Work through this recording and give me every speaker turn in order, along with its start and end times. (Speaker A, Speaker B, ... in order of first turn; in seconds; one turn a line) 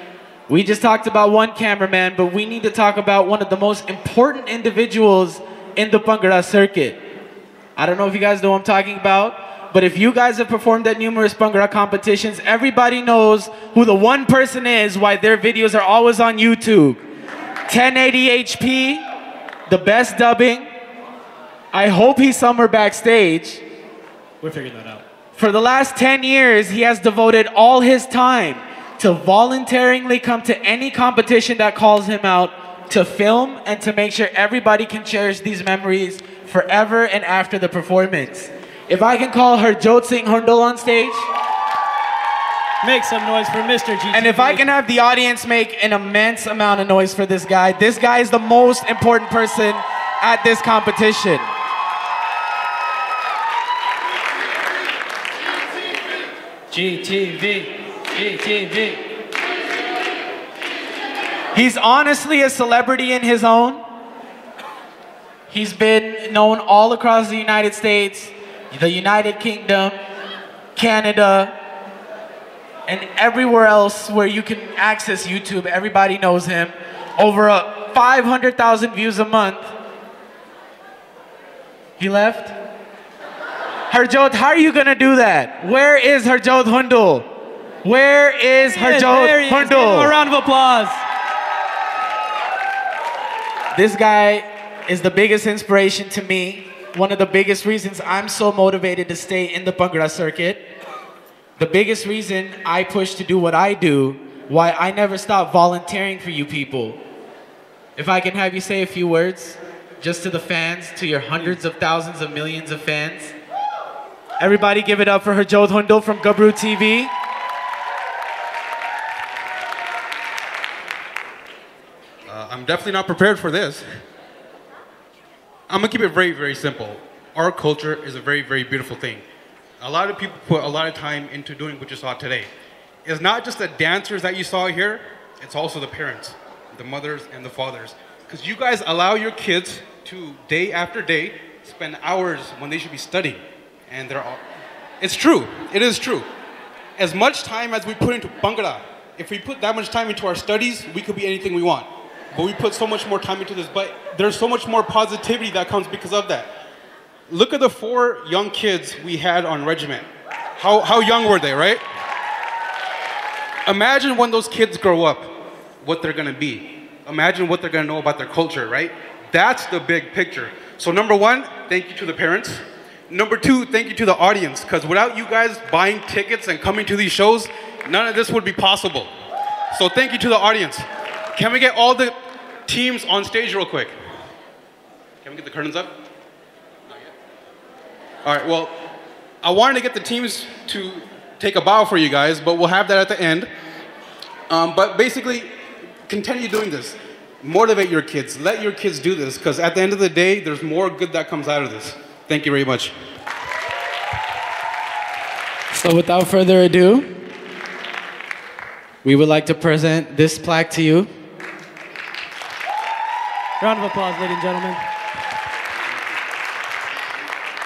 Speaker A: 0.5-7.0
Speaker A: 7.8-17.0
Speaker A: 17.7-19.0
Speaker A: 19.7-20.7
Speaker A: 21.7-23.6
Speaker B: 24.4-25.0
Speaker A: 25.4-41.3
Speaker B: 42.8-44.6
Speaker A: 44.1-51.5
Speaker B: 56.7-59.0
Speaker A: 61.5-63.8
Speaker A: 65.5-70.0
Speaker A: 70.8-71.5
Speaker A: 72.9-79.7
Speaker A: 82.0-82.5
Speaker A: 83.9-87.3
Speaker A: 87.8-90.1
Speaker B: 88.7-91.0
Speaker A: 93.7-100.6
Speaker A: 101.6-107.0
Speaker A: 108.0-113.3
Speaker A: 114.4-117.1
Speaker C: 122.3-123.8
Speaker C: 125.7-129.2
Speaker C: 129.8-132.5
Speaker C: 133.1-144.4
Speaker C: 145.0-146.3
Speaker C: 147.0-156.5
Speaker C: 157.3-160.1
Speaker C: 160.6-161.8
Speaker C: 163.7-179.1
Speaker C: 179.7-182.1
Speaker C: 182.7-183.9
Speaker C: 185.2-185.9
Speaker C: 188.2-188.7
Speaker C: 189.4-193.5
Speaker C: 194.5-195.5
Speaker C: 196.1-202.9
Speaker A: 205.7-207.1
Speaker A: 209.0-211.1
Speaker B: 213.6-214.8